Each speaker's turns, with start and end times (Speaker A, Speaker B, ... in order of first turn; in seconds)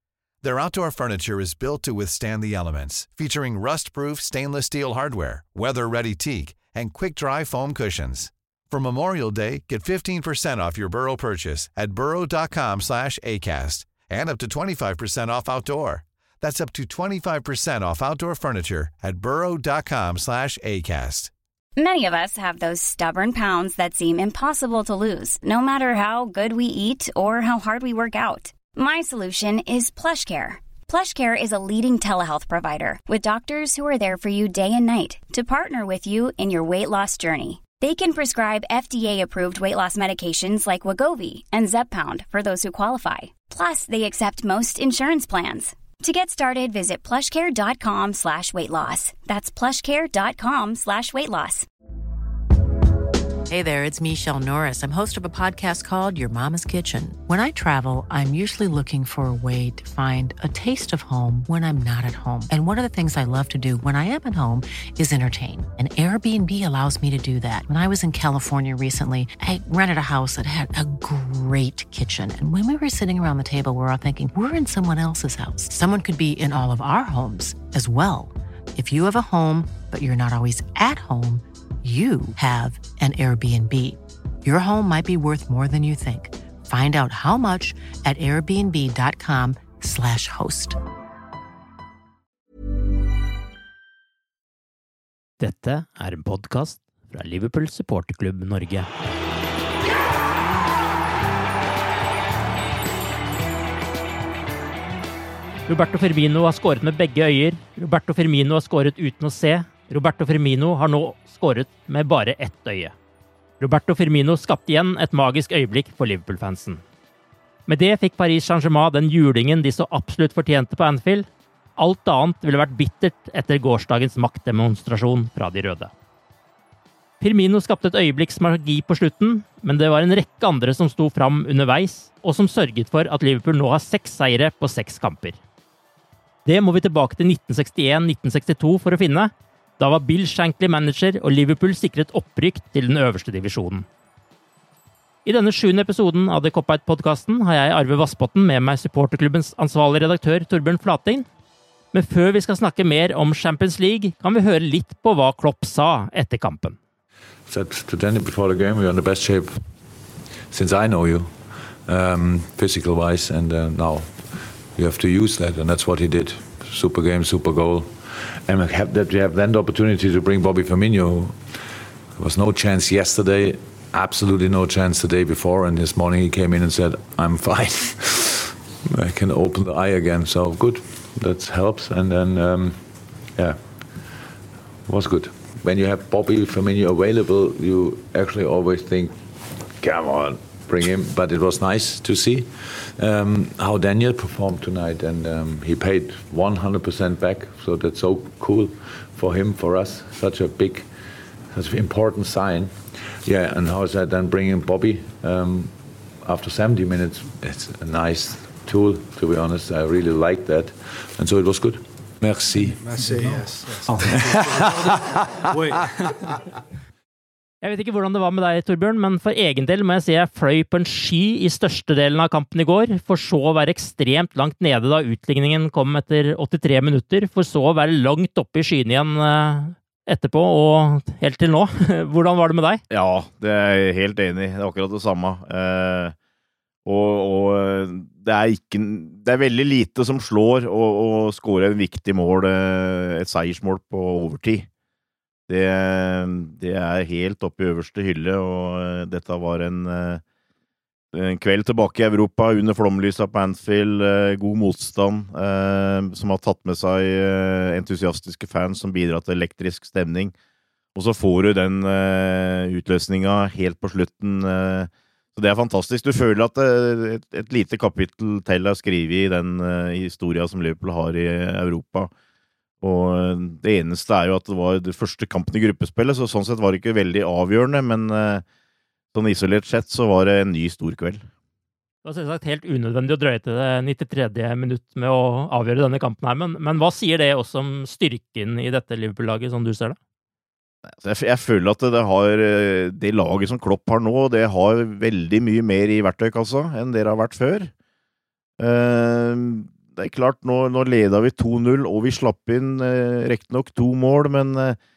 Speaker A: 0.4-21.3
Speaker B: 21.8-51.7
Speaker C: 53.5-90.8
Speaker D: 95.4-98.9, 105.7-112.9, 113.6-116.8, 117.7-125.9, 127.2-135.4, 136.4-143.9, 145.2-151.3, 151.9-156.8, 217.6-232.8, 282.0-290.0
Speaker E: 157.5-159.7, 160.5-171.6, 172.2-184.1, 184.9-189.2, 189.8-200.9, 201.5-213.4, 214.0-214.9, 215.6-215.8
Speaker F: 212.6-215.0, 215.5-215.8
Speaker G: 232.9-236.2, 236.8-244.7, 245.5-250.2, 251.1-260.4, 260.9-272.1, 272.8-278.4, 279.1-281.3, 290.8-297.7, 298.6-304.8